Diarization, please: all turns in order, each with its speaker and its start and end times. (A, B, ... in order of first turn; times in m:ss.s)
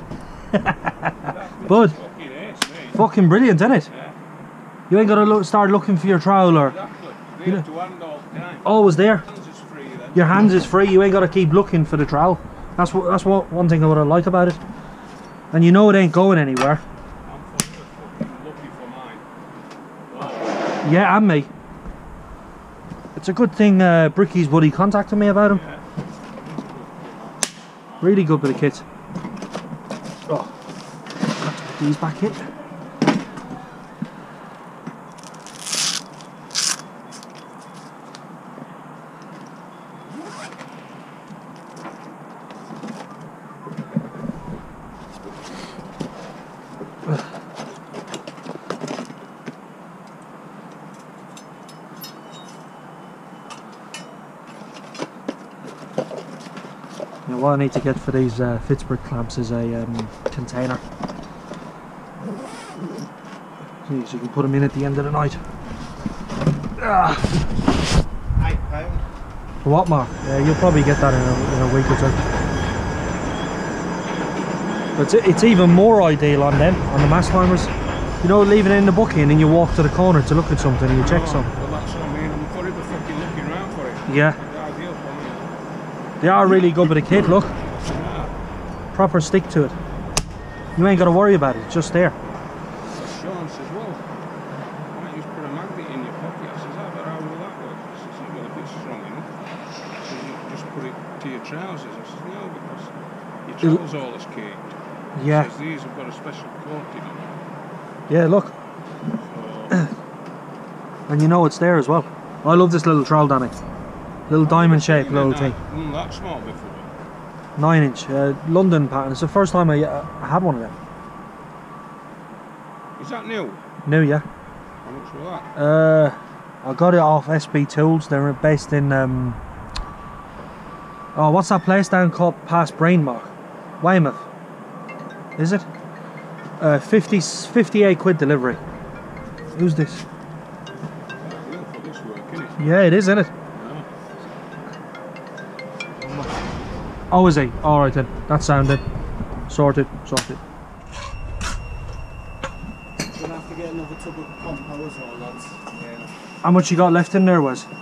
0:00.5-0:02.0 A
0:01.2-0:03.0 B
0:02.9-0:03.9 A
0:03.9-0:04.2 B
0:04.9-0:06.8 A
0:06.6-0:10.6 B
0:08.6-0:09.2 A
0:10.1-0:14.6 A
0:15.5-0:16.8 A
0:17.2-0:19.2 B
0:20.1-0:20.6 B
0:20.8-0:21.5 A
0:23.2-0:25.6 A
0:25.4-0:25.8 B
0:26.4-0:27.2 C
0:28.0-0:28.8 A
0:30.3-0:30.5 A
0:31.4-0:32.4 A
0:57.3-1:00.8 A
1:03.9-1:05.4 A
1:06.8-1:07.3 A
1:08.4-1:09.0 C
1:09.6-1:12.2 A
1:15.0-1:21.5 A
1:21.0-1:25.5 B
1:24.1-1:24.4 A
1:26.2-1:27.5 A
1:27.8-1:28.3 B
1:28.9-1:29.8 A
1:30.8-1:32.2 A
1:32.9-1:34.0 B
1:34.9-1:39.3 B
1:40.0-1:42.9 B
1:43.5-1:47.3 B
1:45.2-1:45.5 A
1:48.1-1:48.5 A
1:49.3-1:49.9 B
1:51.1-1:53.6 A
1:54.3-1:55.6 A
1:54.4-1:56.9 B
1:57.6-2:00.8 A
2:03.0-2:03.6 B
2:03.8-2:04.3 A
2:04.8-2:05.5 B
2:05.6-2:09.4 A
2:11.2-2:14.2 A
2:15.4-2:15.7 A
2:16.6-2:18.6 A
2:19.5-2:20.0 A
2:21.2-2:22.7 B
2:22.6-2:23.3 A
2:23.6-2:23.9 B
2:26.0-2:26.4 C
2:27.1-2:28.8 A
2:29.5-2:30.4 A
2:33.0-2:36.1 C
2:36.4-2:37.7 A